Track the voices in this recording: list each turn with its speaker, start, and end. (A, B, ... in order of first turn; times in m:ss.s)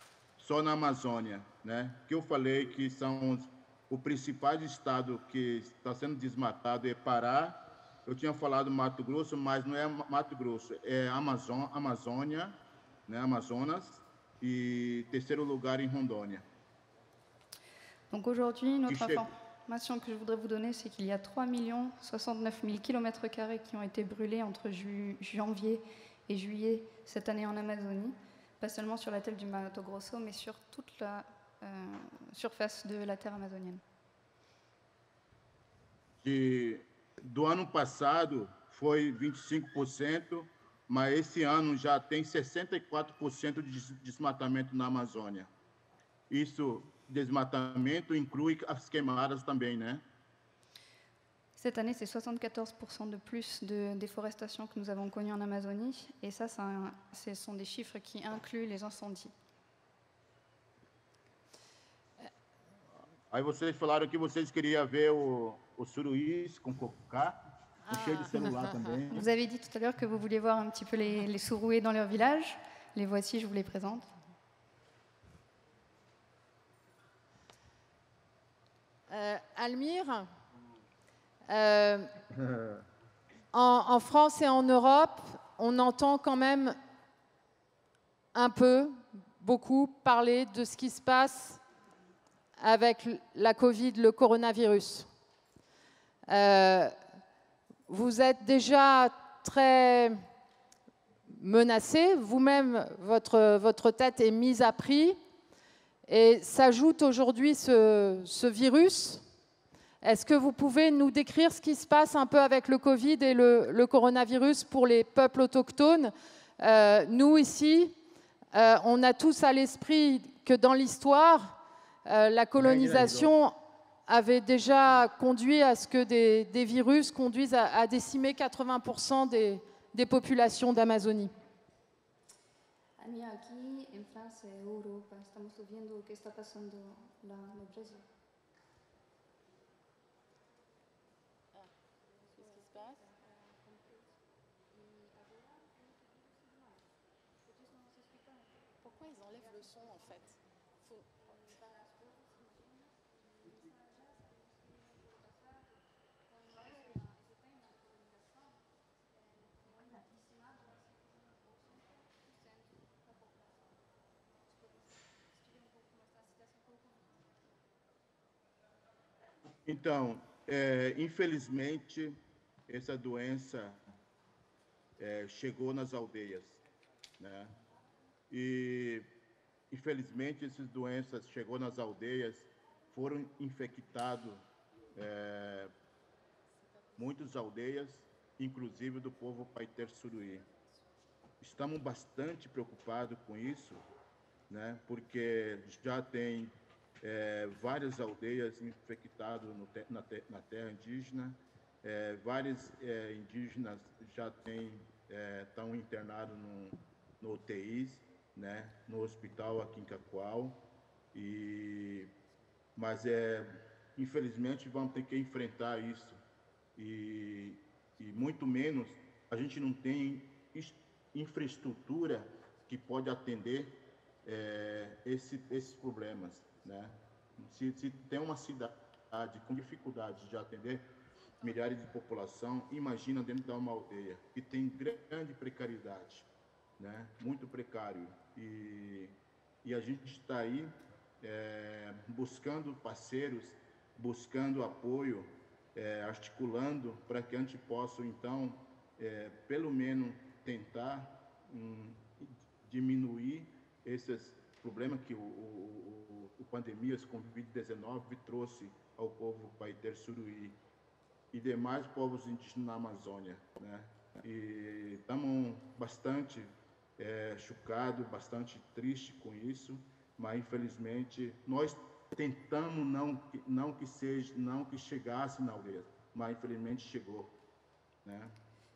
0:00.4-0:12.6 A
0:13.1-0:16.4 A
0:18.1-0:33.8 B
0:18.9-0:19.2 A
0:36.2-0:45.5 A
0:46.3-0:50.0 A
0:51.6-0:59.3 B
1:03.3-1:07.4 A
1:07.9-1:08.3 C
1:07.9-1:09.3 A
1:09.1-1:14.1 B
1:19.1-1:20.3 C
1:21.5-1:22.1 C
1:23.5-1:26.8 C
1:28.3-1:31.6 C
1:32.6-1:35.1 C
1:36.3-1:36.9 C
1:37.9-1:40.2 C
1:41.3-1:45.2 C
1:46.1-1:49.2 C
1:50.0-1:57.9 C
1:58.5-2:03.5 C
2:02.6-2:03.3 A
2:04.1-2:11.3 C
2:13.0-2:18.0 B
2:22.4-2:22.9 C
2:28.8-2:30.3 C
2:49.6-2:52.2 A
2:52.7-2:53.8 A
2:55.0-2:56.6 A
2:57.2-2:57.5 A
2:58.3-2:59.1 A
2:59.7-3:04.4 A
3:04.9-3:05.7 A
3:07.0-3:10.4 A
3:11.4-3:13.8 A
3:14.5-3:30.6 A
3:31.1-3:32.1 A
3:32.8-3:36.2 A
3:36.8-3:50.9 A
3:51.4-3:56.3 A
3:56.8-4:20.6 A
4:21.3-4:37.3 A
4:38.0-4:38.3 A